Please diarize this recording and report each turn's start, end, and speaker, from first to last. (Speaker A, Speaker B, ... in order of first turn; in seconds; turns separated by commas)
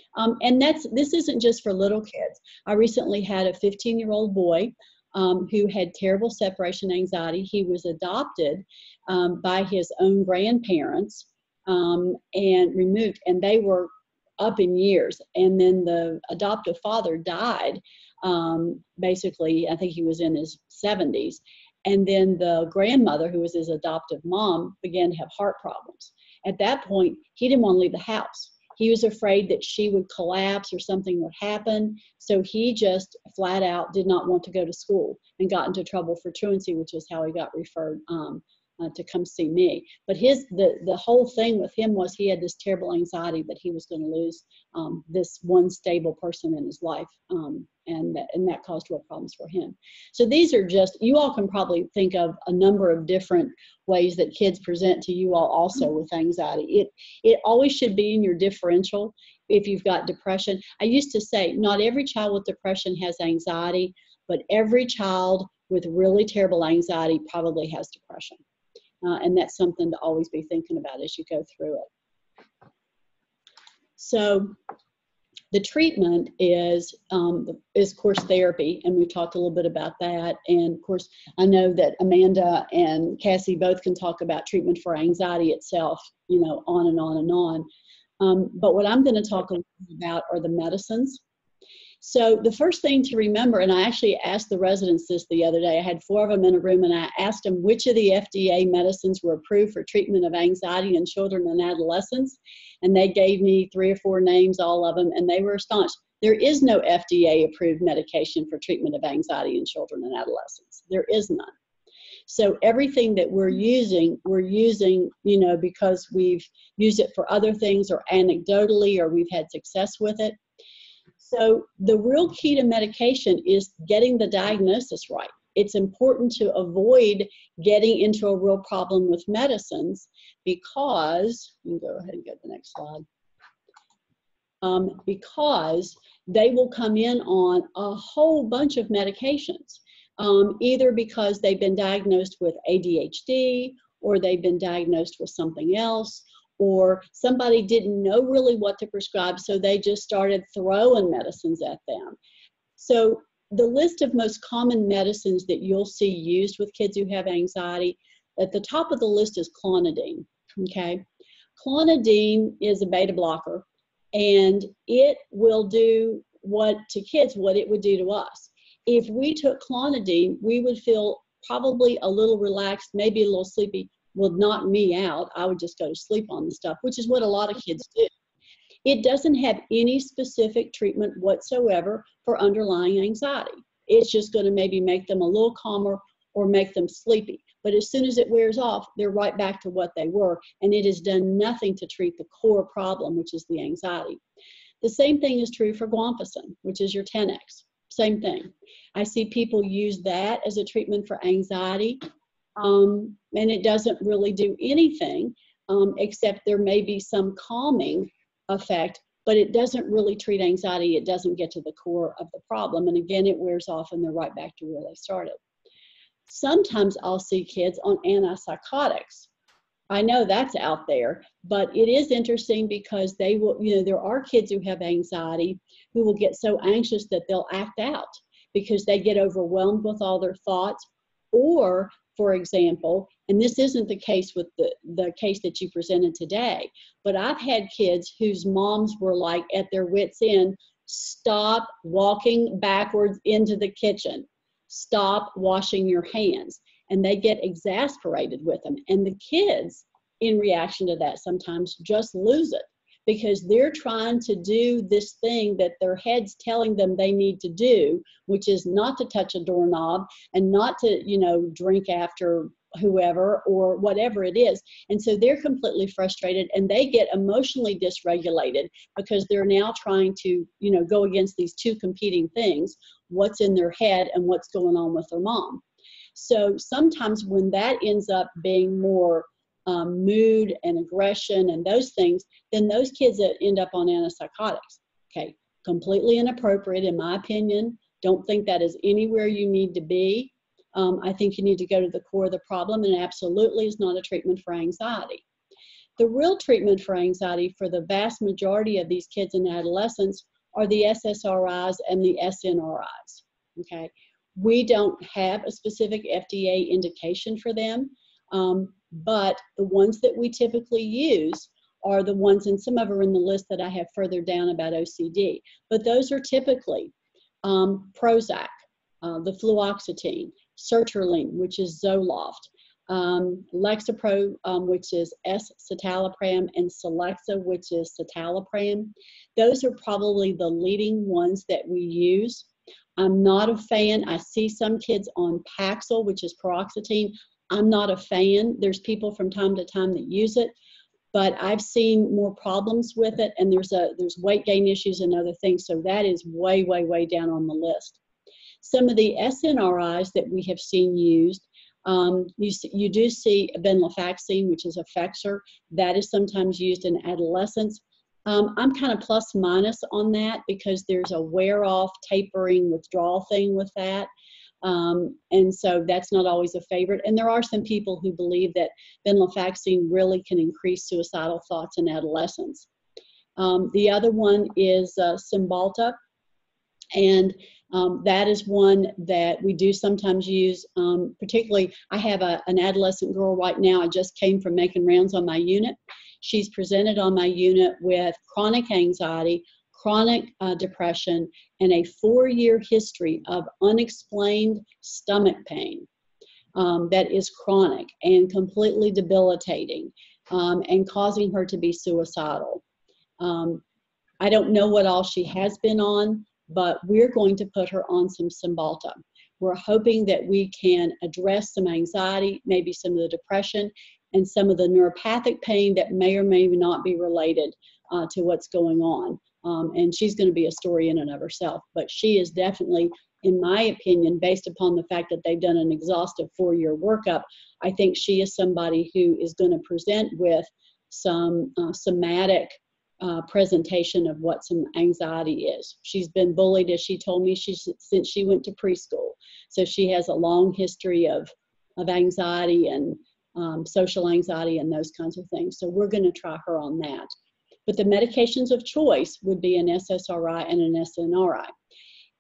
Speaker A: 0.1-68.4, Speaker A: 69.0-71.9, Speaker A: 74.0-74.6, Speaker A: 75.5-87.7, Speaker A: 88.2-91.2, Speaker A: 92.0-111.5, Speaker A: 112.3-120.4, Speaker A: 121.2-133.1, Speaker A: 134.6-152.2, Speaker A: 152.8-161.0, Speaker A: 161.6-178.1, Speaker A: 178.8-194.2, Speaker A: 194.8-202.0, Speaker A: 202.6-215.4, Speaker A: 216.3-219.3, Speaker A: 219.9-275.6, Speaker A: 276.1-295.2, Speaker A: 296.0-316.9, Speaker A: 317.4-340.5, Speaker A: 341.1-348.0, Speaker A: 348.6-364.1, Speaker A: 364.6-372.7, Speaker A: 373.4-376.0, Speaker A: 376.9-395.9, Speaker A: 396.6-402.6, Speaker A: 403.2-403.6, Speaker A: 404.2-447.1, Speaker A: 447.7-451.5